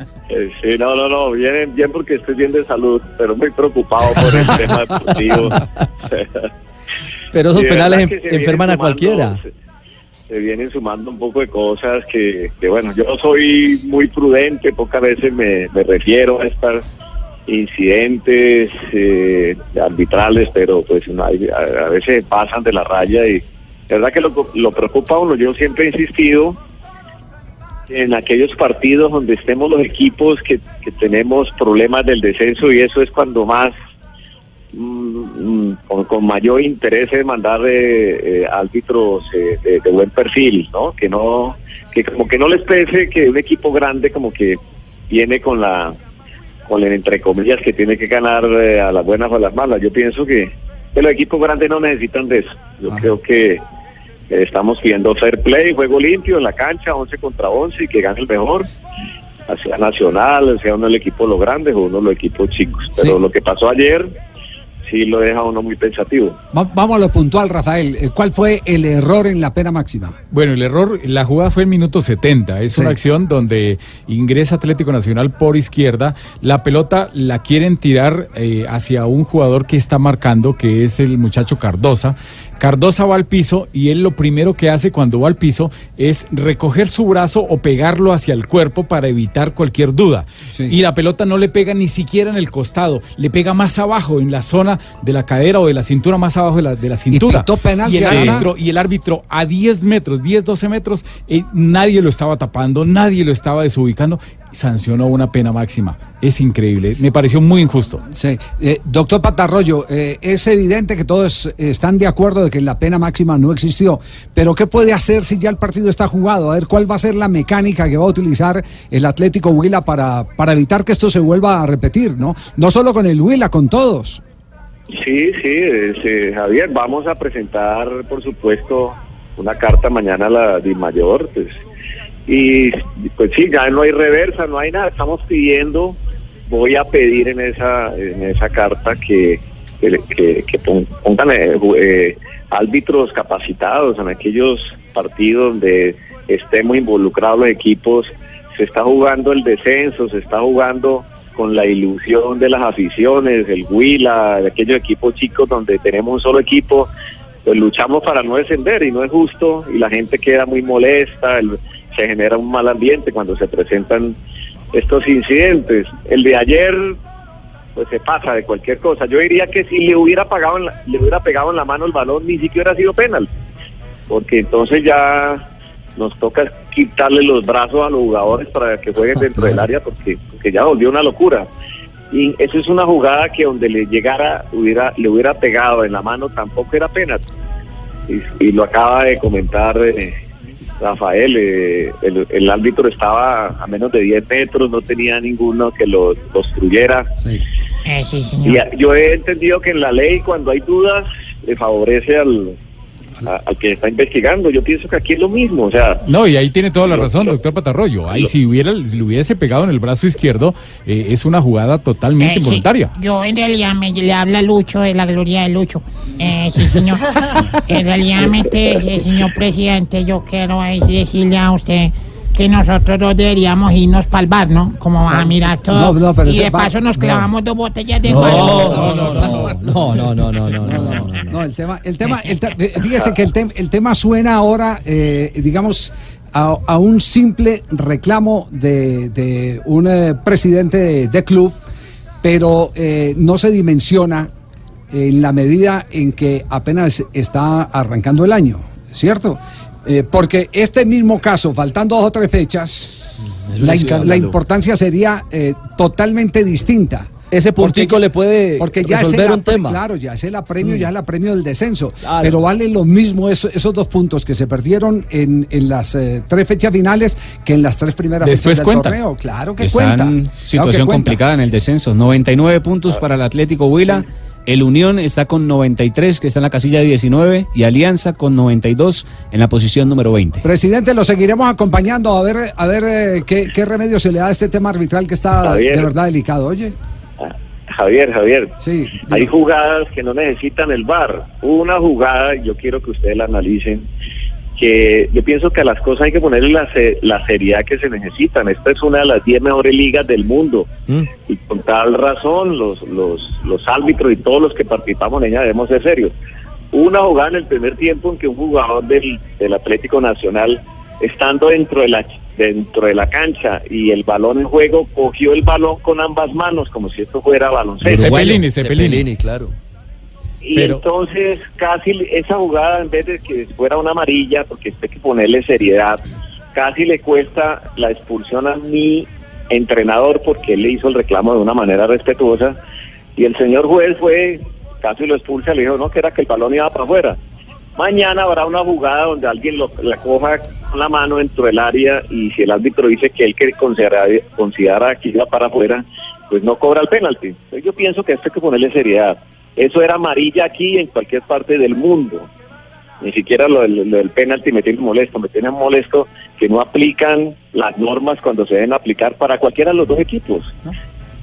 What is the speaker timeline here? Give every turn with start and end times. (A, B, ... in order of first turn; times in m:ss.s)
0:00.3-0:06.5 A
0:07.3-0:09.4 B
0:07.5-0:09.5 A
0:10.3-0:16.8 A
0:17.5-0:26.6 A
0:27.9-0:33.7 A
0:34.7-0:44.6 A
0:45.1-0:46.0 A
0:46.6-0:53.6 A
0:54.3-0:58.7 A
0:59.5-1:04.1 A
1:04.8-1:06.4 A
1:06.5-1:10.2 C
1:10.3-1:48.0 D
1:12.7-1:13.0 C
1:37.1-1:38.5 C
1:48.1-2:04.2 C
2:04.9-2:11.5 A
2:12.3-2:16.0 A
2:16.5-2:36.9 A
2:37.4-2:44.2 A
2:44.7-2:47.0 A
2:47.8-2:53.3 A
2:54.1-2:55.4 A
2:56.0-3:01.5 A
3:02.1-3:07.2 A
3:08.1-3:10.2 A
3:10.8-3:17.1 A
3:17.8-3:18.6 E
3:18.4-3:22.6 A
3:23.2-3:26.0 A
3:26.0-3:32.9 D
3:26.8-3:27.4 A
3:32.2-3:49.5 E
3:45.7-3:47.1 C
3:48.1-3:51.4 B
3:48.4-4:01.6 C
3:48.7-3:49.5 D
4:02.2-4:04.3 C
4:04.9-4:12.9 C
4:13.6-4:14.3 B
4:13.6-4:18.0 C
4:13.6-4:14.3 F
4:17.3-4:19.8 B
4:18.6-4:31.2 C
4:22.0-4:22.4 B
4:28.2-4:29.0 D
4:29.6-4:40.4 G
4:40.4-4:46.8 C
4:45.4-4:45.9 A
4:47.2-4:48.5 A
4:48.6-4:49.3 C
4:49.1-4:53.9 A
4:54.6-5:00.7 A
5:01.2-5:06.1 A
5:06.7-5:18.1 A
5:17.8-5:19.5 F
5:17.8-5:19.1 D
5:20.4-5:26.0 A
5:20.6-5:20.8 D
5:26.5-5:32.6 A
5:33.2-5:37.2 A
5:37.8-5:52.3 A
5:53.0-6:00.6 A